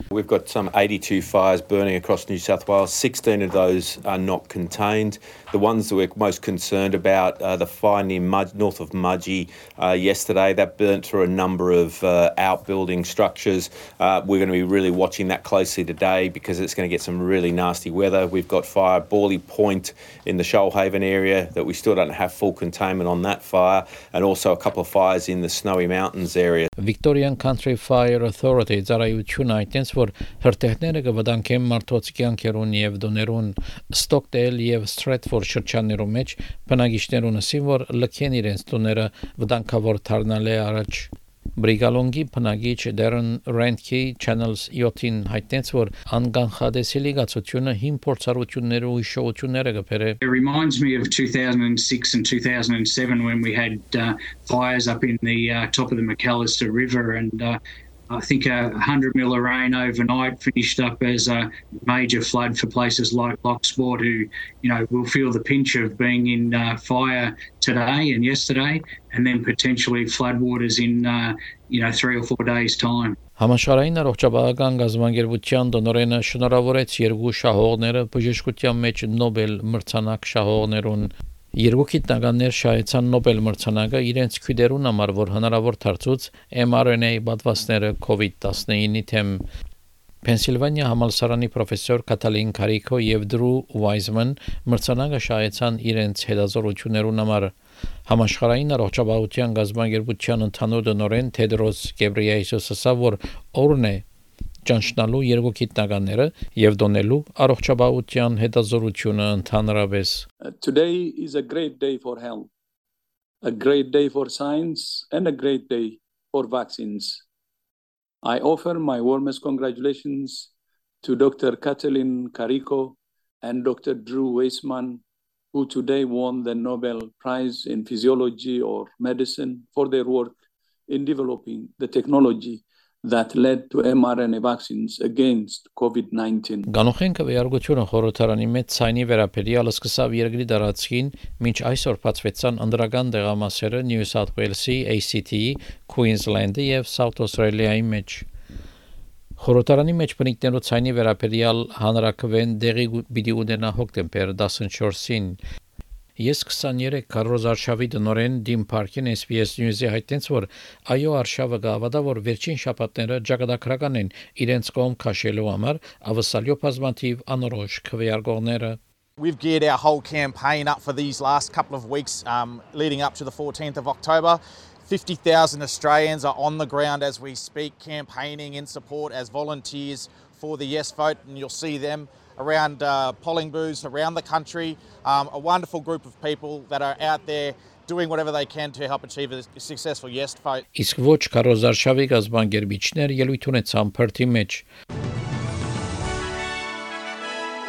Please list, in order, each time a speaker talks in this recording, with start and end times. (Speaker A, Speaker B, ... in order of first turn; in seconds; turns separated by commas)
Speaker A: 0.1-13.5, Speaker A: 14.0-26.7, Speaker B: 26.8-50.2, Speaker C: 50.2-57.5, Speaker C: 58.1-73.2, Speaker B: 73.4-89.4, Speaker B: 90.2-97.5, Speaker B: 98.1-104.0, Speaker B: 104.7-110.2, Speaker D: 110.6-112.5, Speaker D: 113.4-117.2, Speaker D: 118.2-120.5, Speaker D: 121.0-125.0, Speaker D: 125.5-130.3, Speaker D: 130.9-136.6, Speaker B: 136.7-148.2, Speaker B: 149.4-155.4, Speaker B: 156.2-168.8, Speaker E: 169.2-190.6, Speaker B: 190.7-194.6